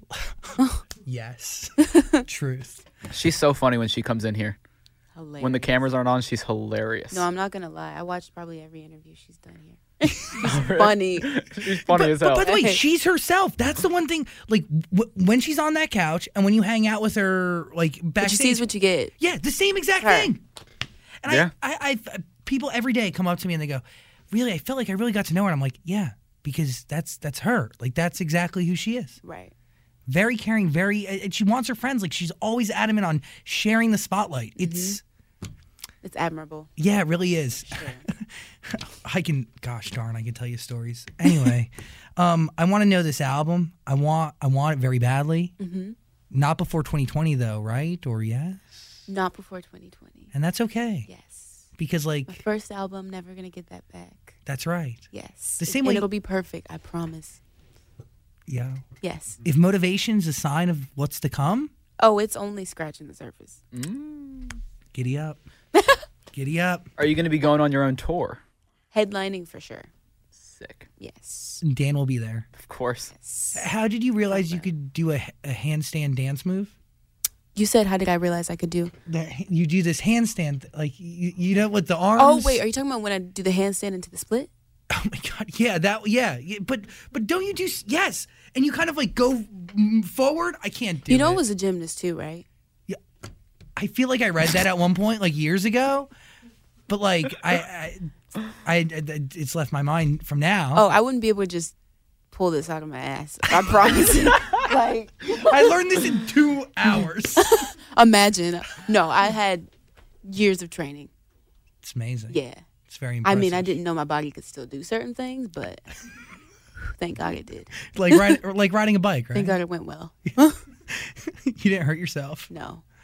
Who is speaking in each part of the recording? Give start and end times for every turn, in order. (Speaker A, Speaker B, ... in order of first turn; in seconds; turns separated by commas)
Speaker A: 0.1-2.9, Speaker B: 0.6-0.8, Speaker B: 1.8-2.2, Speaker C: 3.1-4.6, Speaker B: 5.2-5.7, Speaker C: 5.4-7.3, Speaker B: 7.1-11.3, Speaker C: 10.4-12.5, Speaker A: 11.9-18.6, Speaker B: 12.0-12.8, Speaker B: 18.2-19.1, Speaker A: 19.2-20.4, Speaker B: 20.0-20.3, Speaker A: 21.2-29.2, Speaker B: 29.2-29.5, Speaker A: 30.1-35.0, Speaker B: 34.6-35.0, Speaker B: 36.0-36.7, Speaker A: 36.8-45.5, Speaker B: 37.6-38.1, Speaker B: 45.6-46.0, Speaker A: 46.3-48.8, Speaker B: 49.1-50.3, Speaker A: 50.3-51.1, Speaker B: 51.1-51.7, Speaker A: 51.8-52.4, Speaker B: 52.3-54.4, Speaker A: 54.5-55.0, Speaker B: 55.1-57.4, Speaker A: 55.6-56.1, Speaker A: 58.5-58.8, Speaker B: 59.0-59.4, Speaker A: 59.4-61.7, Speaker B: 62.0-63.6, Speaker C: 63.7-64.6, Speaker A: 64.9-65.4, Speaker B: 65.8-66.0, Speaker A: 66.3-66.9, Speaker C: 67.0-68.4, Speaker B: 68.9-69.9, Speaker C: 70.4-70.9, Speaker B: 71.0-71.6, Speaker A: 71.6-72.5, Speaker C: 72.6-73.1, Speaker B: 73.1-73.7, Speaker A: 73.5-76.7, Speaker B: 74.3-74.7, Speaker B: 77.5-78.9, Speaker A: 79.1-82.6, Speaker B: 82.2-84.5, Speaker A: 84.9-91.4, Speaker B: 91.1-92.5, Speaker A: 93.8-96.1, Speaker A: 96.9-100.8, Speaker B: 100.7-101.8, Speaker B: 102.3-105.8, Speaker A: 103.6-104.0, Speaker A: 105.3-107.6, Speaker B: 107.4-109.7, Speaker B: 110.2-111.1, Speaker A: 111.8-113.7, Speaker B: 112.3-112.6, Speaker B: 113.2-115.8, Speaker B: 116.9-117.8, Speaker A: 117.9-119.6, Speaker B: 119.3-120.6, Speaker A: 120.9-122.5, Speaker B: 122.5-122.8